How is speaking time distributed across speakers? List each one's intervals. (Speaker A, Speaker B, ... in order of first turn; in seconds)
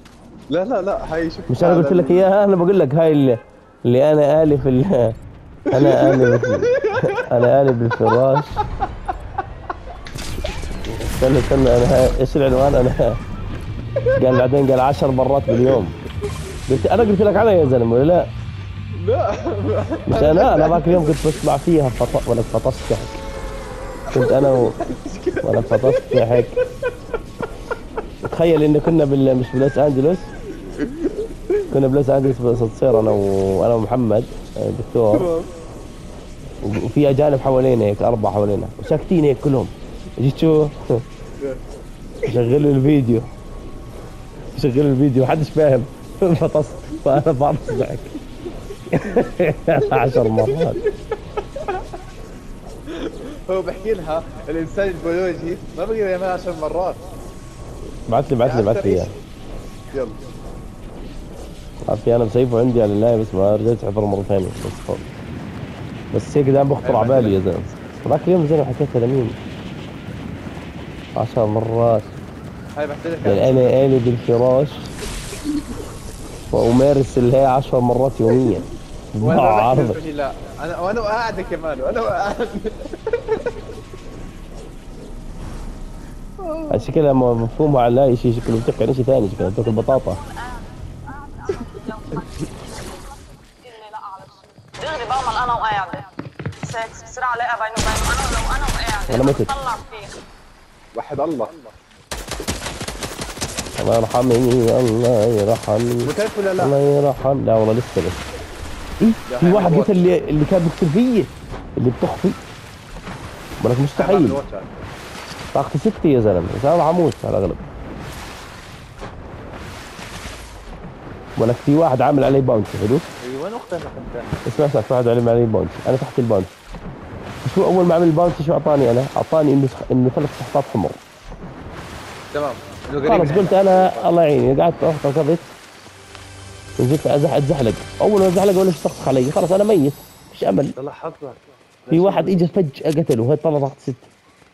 Speaker A: 0.5-2.3, 5.7-7.2, 15.5-15.8, 19.0-21.2, 24.1-26.4, 30.6-31.5, 35.1-35.5, 49.8-50.9, 51.6-51.8, 52.9-57.0, 58.4-59.1, 59.9-60.2, 66.8-67.7, 72.8-73.8, 79.2-83.4, 86.4-86.9, 100.9-101.7, 106.0-106.8, 109.3-110.0, 114.0-114.7, 123.2-124.5, 132.3-134.1, 140.7-142.4
Speaker B: 1.5-5.1, 5.7-8.5, 10.8-13.2, 14.2-15.9, 16.7-18.3, 20.1-23.2, 24.1-24.7, 25.4-26.6, 28.2-30.3, 31.7-35.3, 36.6-41.0, 42.2-43.3, 44.5-48.1, 48.9-50.8, 58.1-59.1, 61.9-65.0, 66.1-69.4, 71.2-72.1, 73.2-74.9, 76.5-80.0, 86.7-90.2, 99.1-99.5, 103.8-108.2, 109.0-112.4, 113.6-114.4, 115.5-117.7, 121.4-123.1, 124.5-126.5, 127.4-131.0, 133.0-135.5, 136.8-140.8, 141.9-144.1
Speaker C: 89.8-90.6, 91.1-100.1